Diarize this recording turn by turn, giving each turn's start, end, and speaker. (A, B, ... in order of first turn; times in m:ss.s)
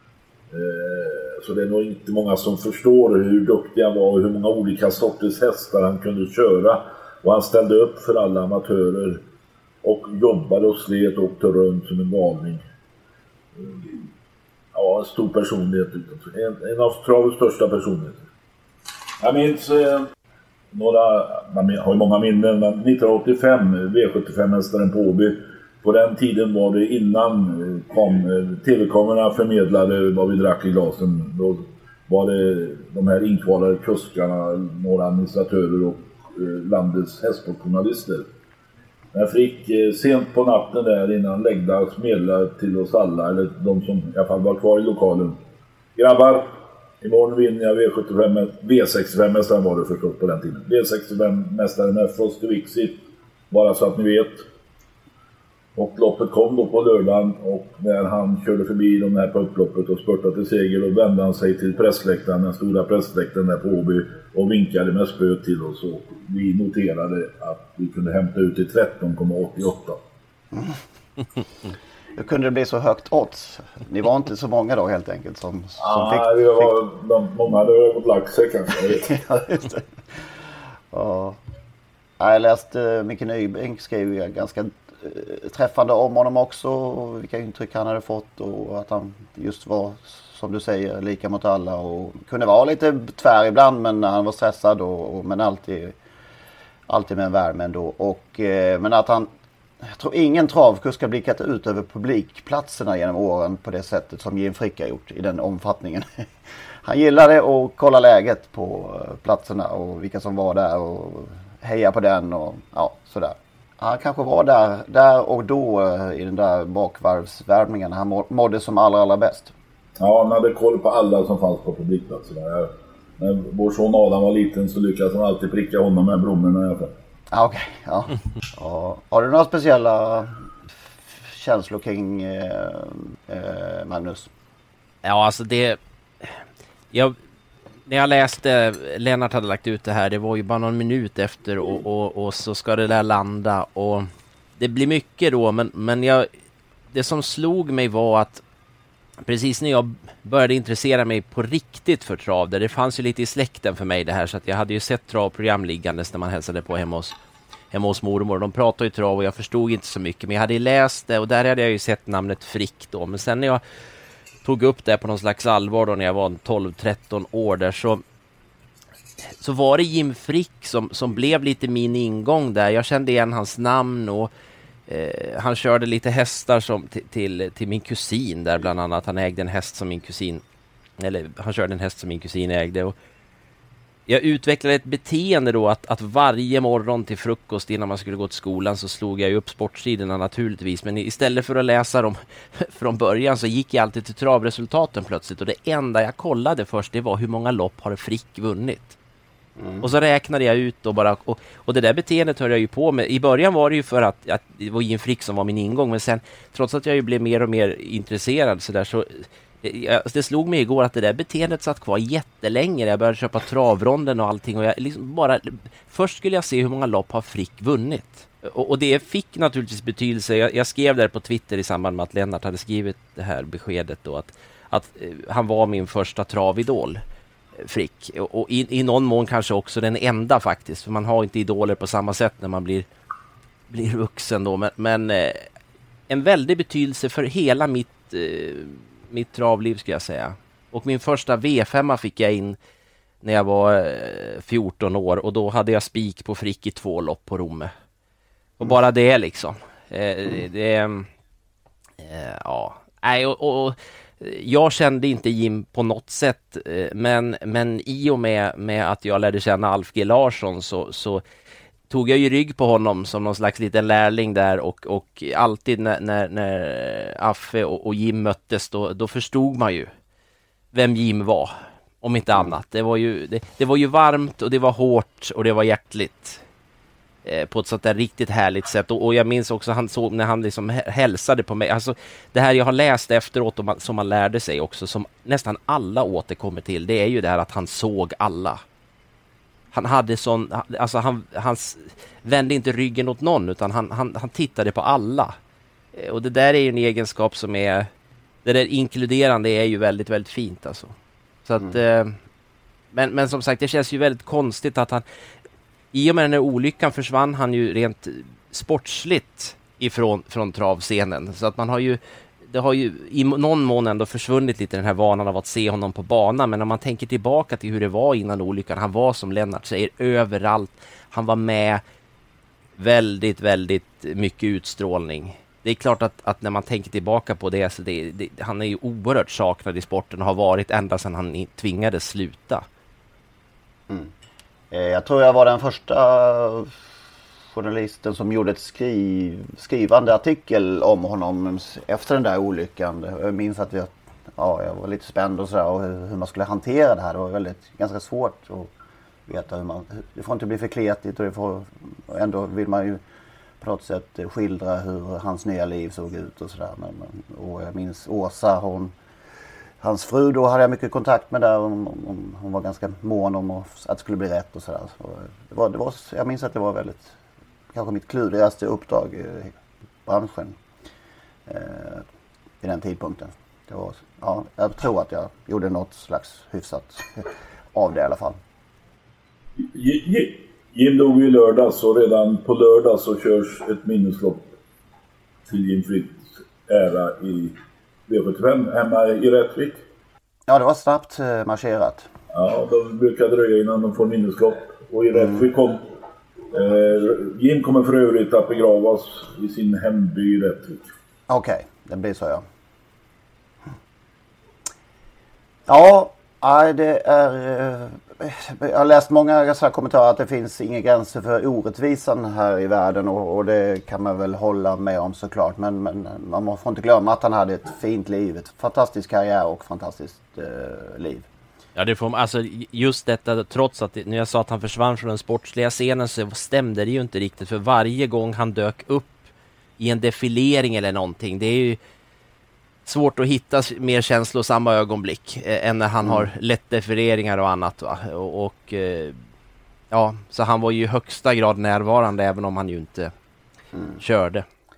0:00.5-0:09.2 A
0:09.8-0:12.6 A
0:13.6-0:14.0 A
0:14.7-0:18.2 A
0:19.2-0:20.0 A
0:20.7-0:38.2 A
0:39.1-0:45.4 A
0:46.0-0:53.0 A
0:53.5-0:54.4 A
0:55.8-1:10.0 A
1:10.5-1:10.8 B
1:12.2-1:16.8 B
1:15.8-1:19.1 A
1:19.0-1:19.9 B
1:20.9-1:21.4 B
1:22.2-1:36.0 B
1:36.9-1:39.3 B
1:39.8-1:46.2 B
1:46.8-1:59.5 B
2:00.0-2:06.9 A
2:07.3-2:10.3 B
2:11.2-2:14.3 B
2:15.0-2:16.3 C
2:16.9-2:17.2 C
2:17.9-2:26.3 C
2:26.9-2:28.4 C
2:29.2-2:37.2 C
2:37.7-2:43.6 C
2:44.4-2:48.0 C
2:49.4-2:54.3 C
2:54.9-3:00.4 C
3:01.0-3:03.0 C
3:04.1-3:19.0 C
3:19.6-3:19.9 B
3:19.8-3:47.0 C
3:47.6-3:52.9 C
3:53.7-3:55.5 C
3:56.1-4:02.6 C
4:03.2-4:07.7 C
4:08.6-4:11.1 C
4:12.0-4:21.2 C
4:21.9-4:29.9 C
4:30.7-4:36.4 C
4:37.2-4:48.6 C
4:49.7-4:55.4 C
4:55.9-4:57.9 C
4:58.4-5:00.9 C
5:01.4-5:02.2 C
5:02.9-5:05.0 C
5:05.9-5:21.8 C
5:22.8-5:32.6 C
5:34.7-5:36.8 B
5:37.5-5:48.7 B
5:49.3-5:53.0 B
5:53.6-5:59.0 B
5:59.8-6:07.2 B
6:07.7-6:10.6 B
6:11.5-6:12.1 B
6:12.6-6:18.4 B
6:19.6-6:24.5 A
6:25.5-6:27.6 A
6:28.1-6:29.8 A
6:30.5-6:32.1 B
6:32.3-6:35.9 A
6:35.2-6:35.4 B
6:36.5-6:40.9 A
6:41.3-6:42.4 B
6:45.7-7:01.3 B
7:01.8-7:09.2 C
7:09.8-7:11.8 C
7:12.9-7:19.2 C
7:19.9-7:23.1 C
7:23.7-7:24.0 B
7:24.0-7:24.5 C